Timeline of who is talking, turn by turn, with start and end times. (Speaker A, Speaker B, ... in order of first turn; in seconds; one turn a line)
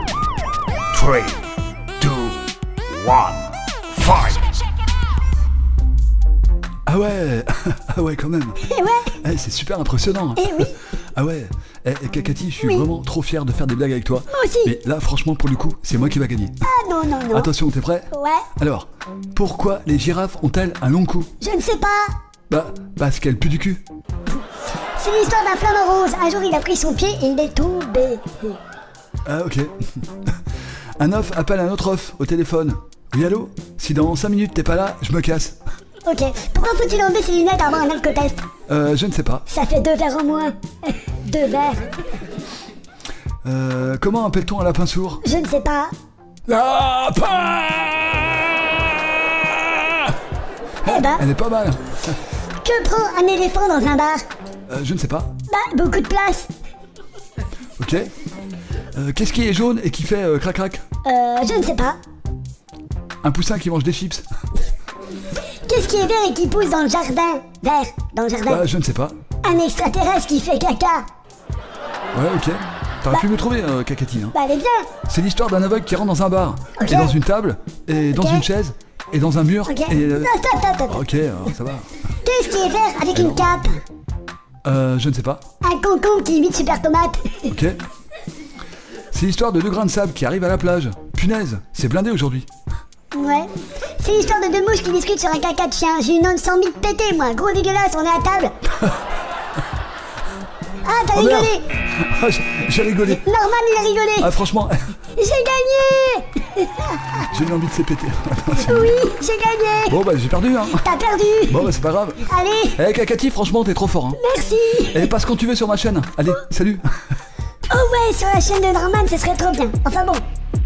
Speaker A: 0.9-1.4
Speaker A: 2.0-2.4
Speaker A: 3.0-3.4
Speaker A: 4.0-4.4
Speaker A: 6.9-8.6
Speaker B: 8.6-9.2
Speaker A: 9.2-16.6
Speaker B: 10.4-10.8
Speaker B: 14.3-14.8
Speaker B: 16.6-17.5
Speaker A: 17.3-21.3
Speaker B: 18.1-18.5
Speaker B: 21.4-22.1
Speaker A: 22.5-23.8
Speaker B: 25.0-28.6
Speaker A: 29.2-30.2
Speaker A: 31.0-35.6
Speaker B: 36.0-38.4
Speaker A: 38.7-39.5
Speaker B: 39.5-41.9
Speaker A: 43.4-45.2
Speaker B: 45.2-45.9
Speaker A: 46.5-48.4
Speaker A: 49.5-50.1
Speaker A: 50.8-52.2
Speaker B: 50.9-51.2
Speaker B: 52.6-54.2
Speaker A: 54.7-55.3
Speaker B: 55.5-56.5
Speaker A: 57.8-58.1
Speaker A: 58.9-60.8
Speaker B: 61.0-62.0
Speaker A: 63.2-64.2
Speaker B: 65.7-68.6
Speaker A: 68.5-69.2
Speaker B: 69.4-71.0
Speaker A: 72.1-74.3
Speaker B: 74.3-74.9
Speaker A: 75.1-80.3
Speaker B: 76.8-77.2
Speaker B: 78.1-78.5
Speaker B: 79.7-81.0
Speaker A: 80.9-81.9
Speaker B: 82.2-83.8
Speaker A: 83.2-83.5
Speaker A: 84.7-85.4
Speaker B: 85.6-87.5
Speaker A: 87.5-87.8
Speaker A: 89.1-92.5
Speaker B: 93.1-98.5
Speaker B: 100.8-101.7
Speaker A: 101.1-103.2
Speaker B: 103.0-104.3
Speaker A: 104.2-104.8
Speaker B: 105.2-107.2
Speaker A: 107.3-109.0
Speaker B: 108.5-110.0
Speaker A: 109.9-110.9
Speaker B: 110.7-112.8
Speaker A: 111.5-112.2
Speaker A: 112.8-114.2
Speaker B: 114.2-115.1
Speaker A: 114.9-116.9
Speaker B: 117.7-120.2